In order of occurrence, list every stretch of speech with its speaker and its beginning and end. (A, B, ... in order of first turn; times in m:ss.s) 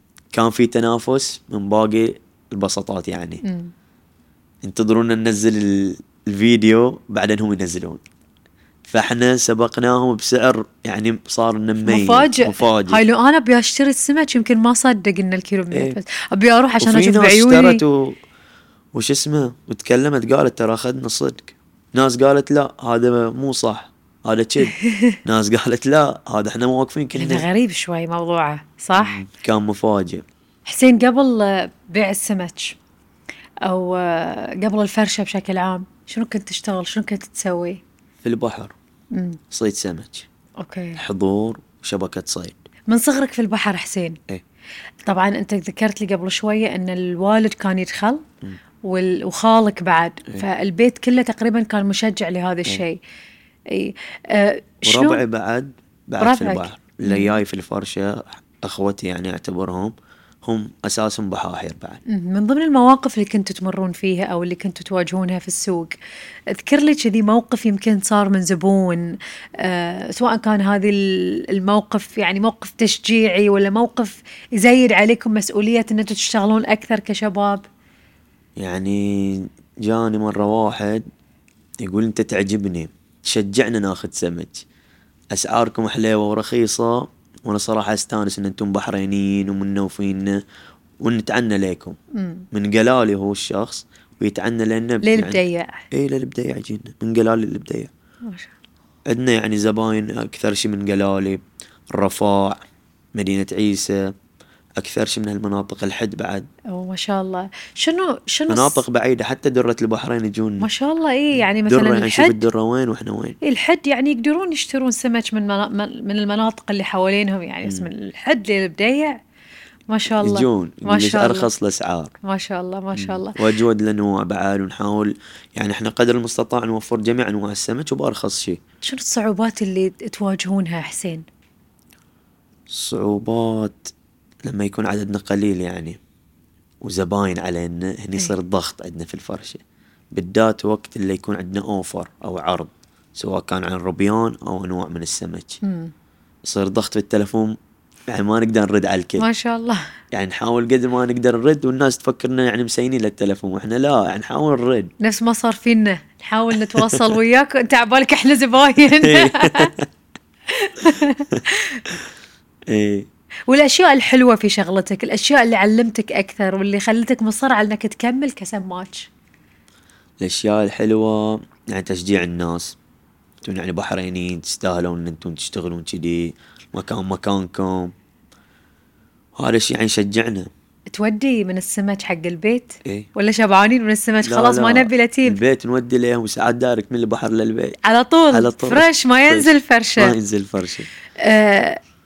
0:00.3-0:03.4 A
0:03.4-0:03.7 B
0:04.6-0:08.0 A
0:08.9-0:13.0 A
0:11.8-0:17.8 B
0:15.7-0:16.0 A
0:16.8-0:18.2 A
0:18.9-0:27.5 A
0:24.6-0:25.2 B
0:27.2-0:29.2 B
0:29.0-0:30.2 A
0:30.6-0:32.8 B
0:33.6-0:37.8 B
0:38.2-0:38.7 A
0:39.1-0:39.4 B
0:39.5-0:40.3 A
0:40.6-0:41.0 B
0:41.0-0:42.6 A
0:42.9-0:44.2 B
0:45.0-0:48.2 B
0:48.8-0:53.0 B
0:53.7-0:55.2 B
0:54.8-1:02.0 A
0:56.2-0:57.4 B
1:02.1-1:06.0 B
1:06.5-1:17.6 B
1:18.6-1:21.0 A
1:21.8-1:24.6 A
1:25.3-1:30.4 A
1:31.0-1:32.0 A
1:32.1-1:32.4 B
1:32.5-1:37.9 A
1:35.0-1:35.8 B
1:39.1-1:41.4 A
1:41.9-1:42.6 A
1:43.1-1:44.1 A
1:44.8-1:46.5 A
1:46.7-1:48.8 B
1:48.5-1:50.7 A
1:50.6-1:52.4 B
1:51.3-1:53.4 A
1:53.4-1:59.2 B
1:57.6-1:57.9 A
1:59.9-2:01.5 B
2:00.2-2:02.1 A
2:02.2-2:03.4 B
2:02.9-2:08.6 A
2:08.8-2:11.2 B
2:12.7-2:13.9 A
2:14.4-2:16.0 A
2:16.8-2:19.6 A
2:20.1-2:25.6 A
2:25.6-2:25.9 B
2:26.4-2:27.6 A
2:28.1-2:29.2 A
2:29.2-2:29.8 B
2:30.1-2:34.9 A
2:35.0-2:39.7 B
2:36.7-2:37.0 A
2:39.0-2:39.8 A
2:40.5-2:41.8 B
2:42.7-2:43.1 A
2:43.5-2:49.1 B
2:50.2-2:52.8 A
2:53.4-2:57.9 A
2:59.4-3:00.5 A
3:00.9-3:05.4 B
3:04.2-3:07.8 A
3:07.8-3:10.1 B
3:08.3-3:10.9 A
3:11.2-3:11.8 B